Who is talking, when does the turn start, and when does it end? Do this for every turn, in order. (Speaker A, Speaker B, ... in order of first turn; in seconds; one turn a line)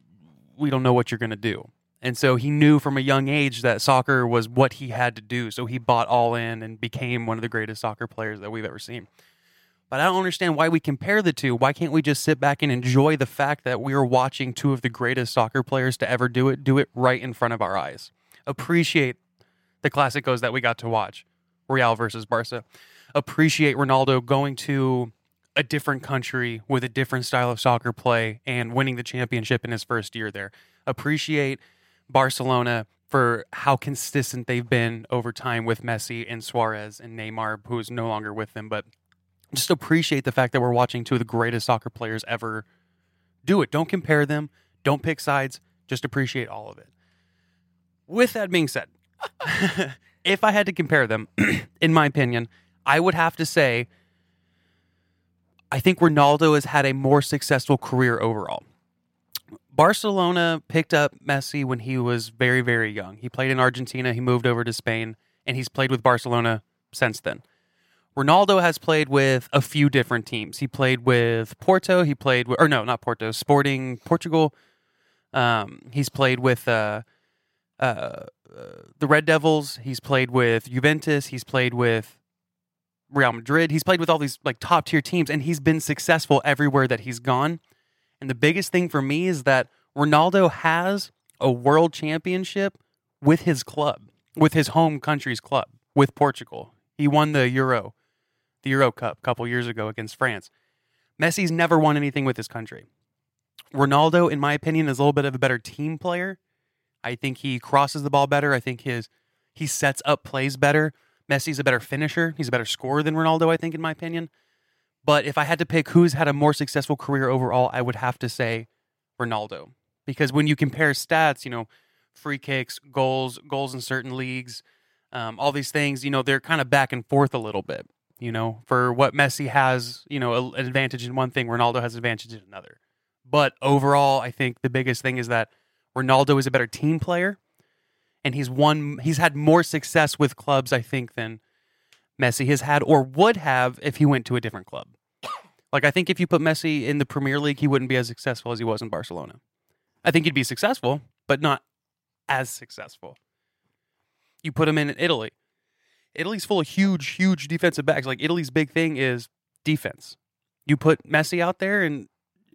Speaker A: 0.6-9.1
Speaker A: 9.9-19.2
Speaker A: 19.8-22.6
Speaker A: 23.1-38.9
Speaker A: 39.5-42.6
Speaker A: 43.4-46.9
Speaker A: 48.1-48.9
Speaker A: 49.4-53.9
Speaker A: 55.7-58.6
Speaker A: 59.7-67.4
Speaker A: 68.2-74.5
Speaker A: 75.3-77.0
Speaker A: 77.8-82.2
Speaker A: 83.1-87.6
Speaker A: 88.2-97.9
Speaker A: 98.6-100.5
Speaker A: 101.2-102.8
Speaker A: 103.7-106.4
Speaker A: 107.0-114.3
Speaker A: 115.0-118.7
Speaker A: 119.2-137.4
Speaker A: 138.2-141.4
Speaker A: 142.2-144.9
Speaker A: 145.7-149.4
Speaker A: 150.0-151.6
Speaker A: 152.3-153.2
Speaker A: 154.4-155.3
Speaker A: 156.1-160.2
Speaker A: 160.7-162.1